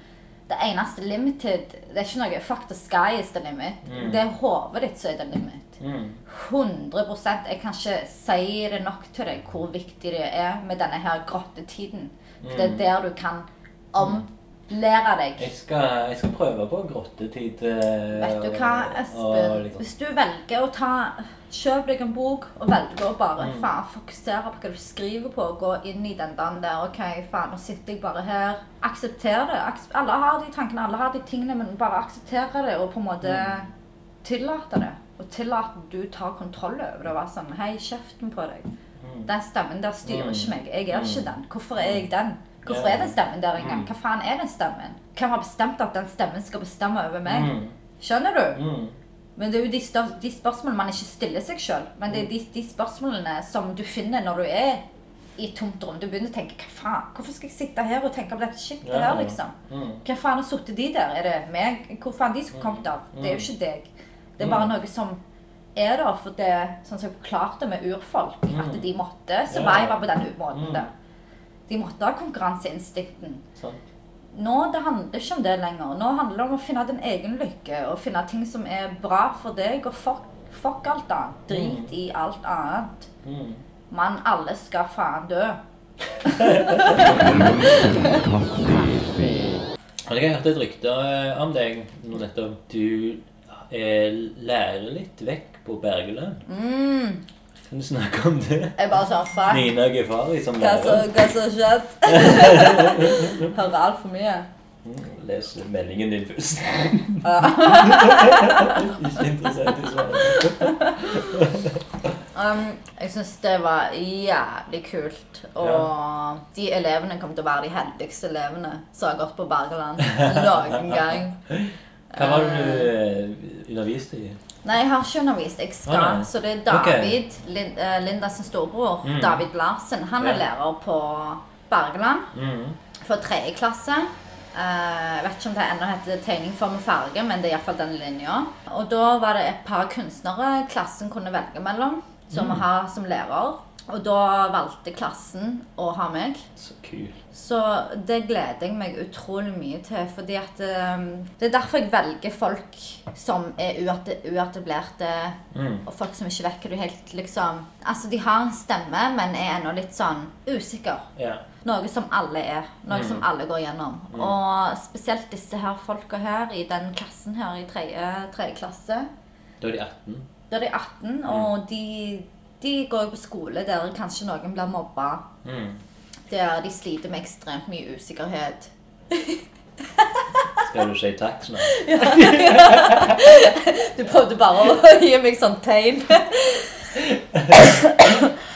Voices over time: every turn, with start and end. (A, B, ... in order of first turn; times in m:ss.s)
0:00.5-0:15.5 A
0:03.8-0:04.2 B
0:05.8-0:06.2 B
0:12.4-0:12.9 B
0:14.0-0:14.2 B
0:15.4-0:19.8 B
0:18.2-0:33.7 A
0:23.4-0:23.7 B
0:33.2-0:33.6 B
0:34.2-0:38.7 A
0:39.0-0:39.3 B
0:39.3-0:48.6 A
0:40.0-0:42.0 B
0:42.6-0:43.9 B
0:47.2-0:47.7 B
0:48.5-0:49.0 B
0:49.4-0:54.8 A
0:55.4-1:05.2 A
0:58.8-1:00.0 B
1:02.5-1:03.5 B
1:04.4-1:04.7 B
1:05.7-1:10.9 A
1:08.5-1:08.8 B
1:09.5-1:10.8 B
1:11.7-1:13.4 A
1:13.6-1:13.8 B
1:14.3-1:23.1 A
1:21.5-1:21.9 B
1:23.2-1:23.6 B
1:23.9-1:25.6 A
1:26.2-1:27.9 A
1:26.2-1:27.2 B
1:27.0-1:29.6 C
1:30.0-1:36.4 B
1:36.4-1:37.2 A
1:37.7-1:38.8 B
1:38.8-1:39.7 A
1:39.5-1:41.1 B
1:40.6-1:44.5 A
1:42.0-1:43.5 B
1:44.8-1:51.8 B
1:47.2-1:48.9 A
1:50.2-1:51.3 A
1:52.3-2:01.4 A
1:55.6-1:55.9 B
2:00.0-2:04.4 B
2:02.1-2:02.9 A
2:04.6-2:12.3 A
2:05.9-2:07.2 B
2:09.0-2:09.4 B
2:12.3-2:12.8 B
2:13.0-2:26.5 A
2:22.3-2:22.6 B
2:26.6-2:27.2 B
2:27.3-2:41.1 A
2:35.5-2:35.8 B
2:41.2-2:41.4 B
2:41.6-2:49.1 A
2:42.9-2:43.2 B
2:49.6-2:50.3 B
2:50.5-2:55.2 A
2:55.4-2:55.8 B
2:56.3-3:00.6 A
3:00.6-3:03.2 B
3:01.6-3:06.9 A
3:07.0-3:07.6 B
3:07.6-3:08.3 A